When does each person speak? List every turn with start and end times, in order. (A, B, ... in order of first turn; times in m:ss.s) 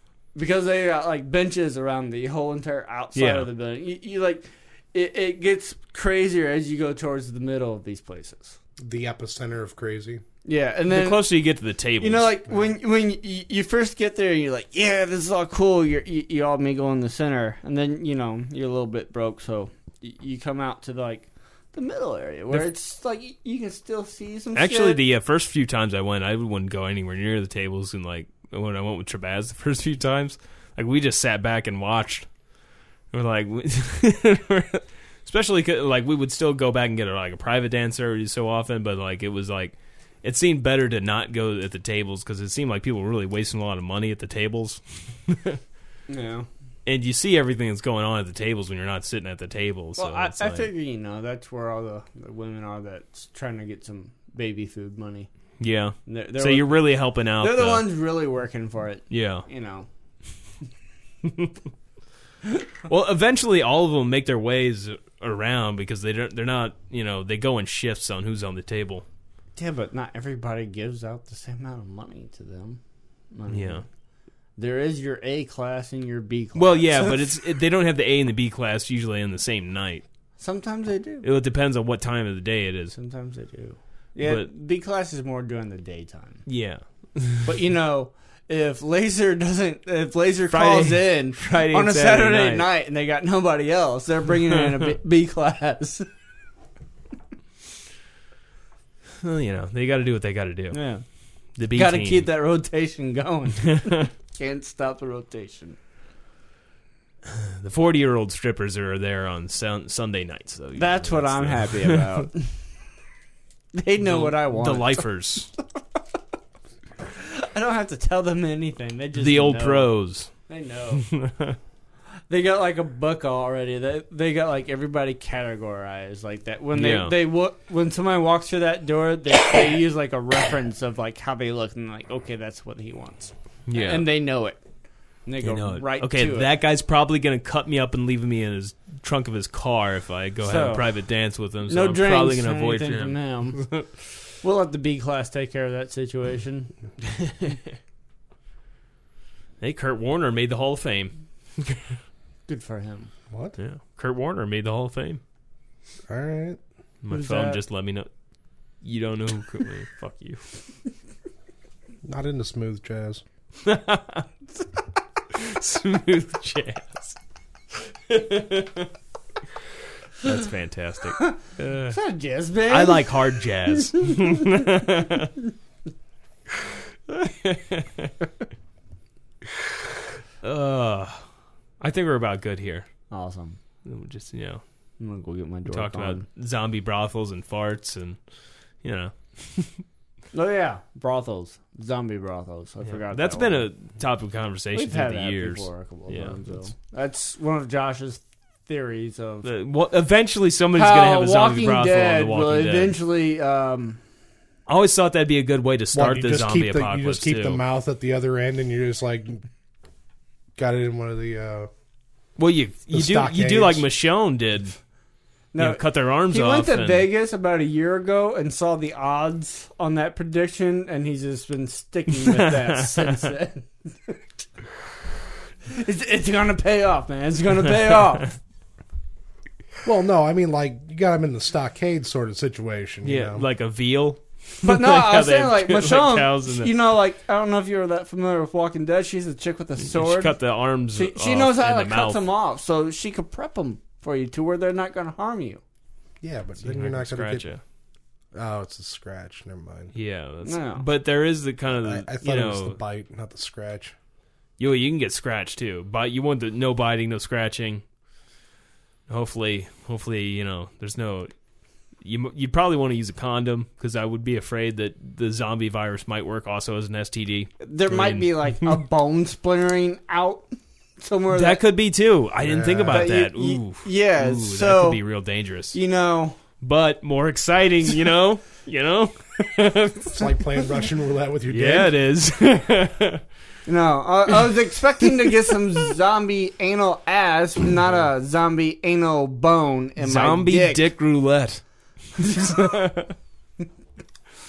0:00.3-0:08.6 A
0:03.1-0:03.5 B
0:08.8-0:10.2 C
0:10.4-0:11.2 A
0:10.9-0:12.3 B
0:12.0-0:25.0 A
0:24.5-0:32.3 B
0:33.1-0:45.6 B
0:46.1-0:46.5 A
0:46.8-0:50.7 B
0:50.0-0:55.3 A
0:55.6-0:57.9 B
0:56.0-0:56.9 A
0:57.4-0:59.9 A
0:59.1-0:59.4 B
1:01.2-1:01.5 B
1:02.8-1:09.0 B
1:09.6-1:12.8 A
1:13.3-1:13.8 A
1:13.5-1:13.8 B
1:14.6-1:17.4 A
1:16.5-1:20.0 B
1:20.4-1:21.3 A
1:21.2-1:23.0 B
1:23.0-1:26.4 A
1:24.2-1:24.5 B
1:26.4-1:27.5 B
1:27.4-1:36.1 A
1:30.5-1:32.7 B
1:39.2-1:40.8 B
1:40.7-1:41.0 A
1:41.6-1:42.3 B
1:41.7-1:45.8 A
1:43.6-1:44.1 B
1:47.2-1:52.3 B
1:50.8-1:52.6 A
1:53.7-1:55.1 A
1:54.0-1:55.5 B
1:57.1-1:59.9 A
1:59.1-2:00.3 B
2:00.5-2:01.1 A
2:01.0-2:01.6 B
2:02.3-2:14.6 A
2:06.7-2:07.2 B
2:13.7-2:14.1 B
2:15.2-2:16.5 A
2:15.4-2:23.9 B
2:20.4-2:20.9 A
2:21.7-2:23.8 A
2:24.4-2:26.7 A
2:29.6-2:32.0 B
2:32.5-2:33.1 A
2:33.3-2:33.6 C
2:33.6-2:35.2 B
2:36.1-2:36.6 C
2:37.0-2:38.1 B
2:37.1-2:37.6 A
2:38.8-2:40.4 B
2:42.0-2:43.2 C
2:43.6-2:44.3 B
2:45.3-2:47.2 B
2:47.7-2:48.9 B
2:50.2-2:52.0 B
2:51.9-2:53.2 A
2:52.6-2:55.4 B
2:57.1-2:58.3 B
3:00.4-3:01.2 B
3:01.8-3:02.9 B
3:03.1-3:03.6 A
3:03.8-3:04.6 B
3:05.0-3:06.2 A
3:05.6-3:08.2 B
3:08.8-3:09.8 B
3:10.3-3:13.7 A
3:12.8-3:16.7 B
3:14.7-3:19.5 A
3:19.4-3:23.0 B
3:20.7-3:24.0 A
3:24.7-3:27.6 B
3:25.9-3:29.4 C
3:30.6-3:31.7 C
3:32.4-3:34.7 B
3:32.9-3:33.9 C
3:35.5-3:44.2 A
3:35.6-3:37.1 B
3:42.2-3:43.3 B
3:45.6-3:48.3 A
3:49.8-3:53.4 C
3:53.0-3:56.7 B
3:54.6-4:05.6 A
3:59.8-4:02.2 B
4:06.2-4:07.5 C
4:06.6-4:07.6 B
4:08.3-4:09.9 C
4:09.9-4:12.8 B
4:10.4-4:10.8 A
4:11.8-4:13.9 C
4:14.6-4:17.8 B
4:19.1-4:21.3 B
4:22.0-4:28.8 B
4:27.6-4:31.6 A
4:31.3-4:35.8 B
4:32.4-4:33.1 C
4:32.9-4:35.0 A
4:35.7-4:36.4 A
4:36.6-4:40.4 B
4:40.2-4:41.9 C
4:41.5-4:43.2 B
4:43.6-4:50.8 A
4:50.0-4:51.6 B
4:52.2-4:53.1 B
4:52.3-4:52.6 A